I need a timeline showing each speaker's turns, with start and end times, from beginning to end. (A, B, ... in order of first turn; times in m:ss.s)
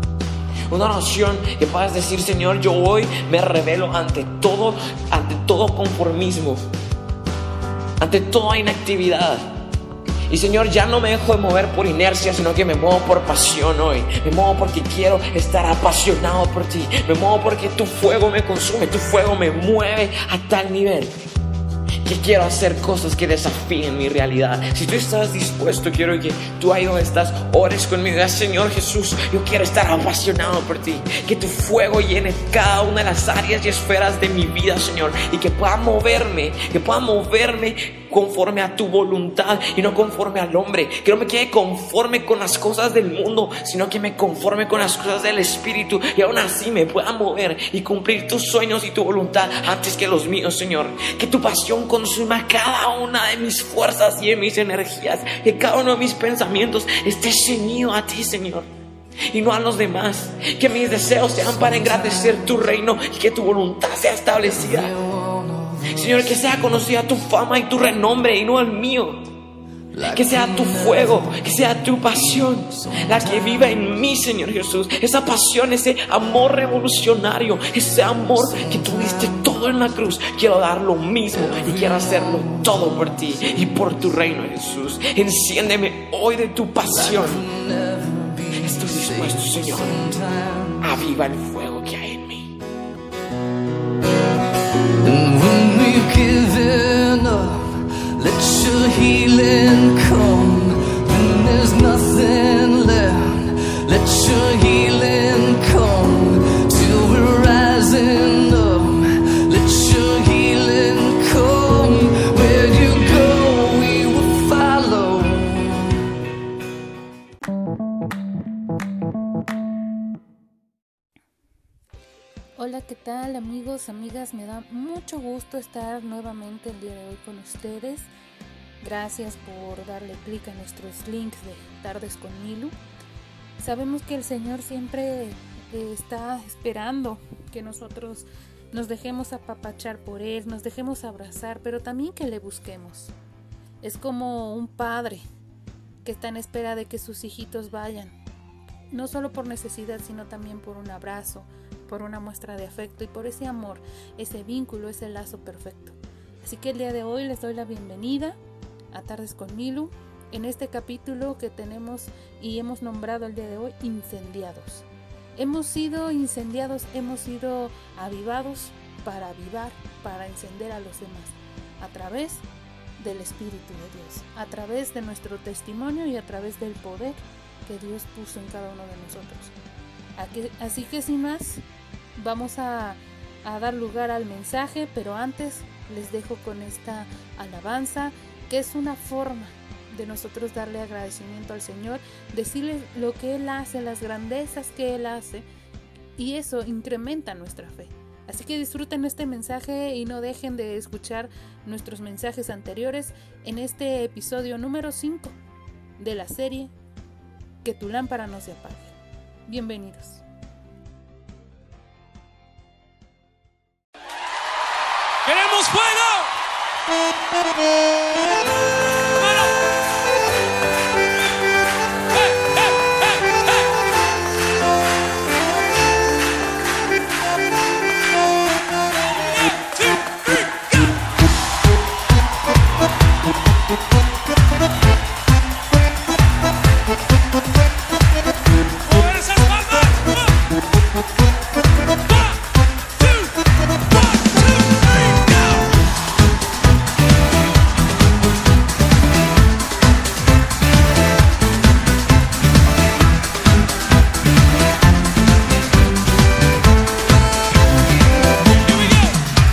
0:00.7-0:06.6 A
0:08.0-0:09.5 A
0:10.3-0:21.1 A
0:22.0-0:58.7 A
0:59.3-1:04.9 A
1:01.4-1:02.6 B
1:04.4-1:06.3 B
1:05.9-1:09.3 A
1:09.9-1:11.4 B
1:10.0-1:27.4 A
1:12.2-1:13.8 B
1:18.4-1:19.5 B
1:21.3-1:24.1 B
1:26.9-1:30.8 B
1:28.5-1:30.1 A
1:30.8-1:32.5 A
1:35.0-1:56.1 B
2:02.6-2:08.1 C
2:08.8-2:12.8 C
2:13.6-2:23.1 C
2:23.8-2:25.2 C
2:26.0-2:28.2 C
2:28.9-2:38.4 C
2:38.9-2:52.4 C
2:53.0-2:59.5 C
3:00.2-3:01.6 C
3:02.2-3:15.5 C
3:16.2-3:25.4 C
3:26.0-3:26.7 C
3:27.6-3:29.0 C
3:29.5-3:30.2 C
3:35.2-3:36.3 D
3:39.1-3:39.5 D
3:42.2-3:43.4 D
3:49.1-3:51.0 D
3:58.8-4:00.4 D
4:02.0-4:02.4 D
4:03.0-4:05.7 D
4:18.4-4:19.2 D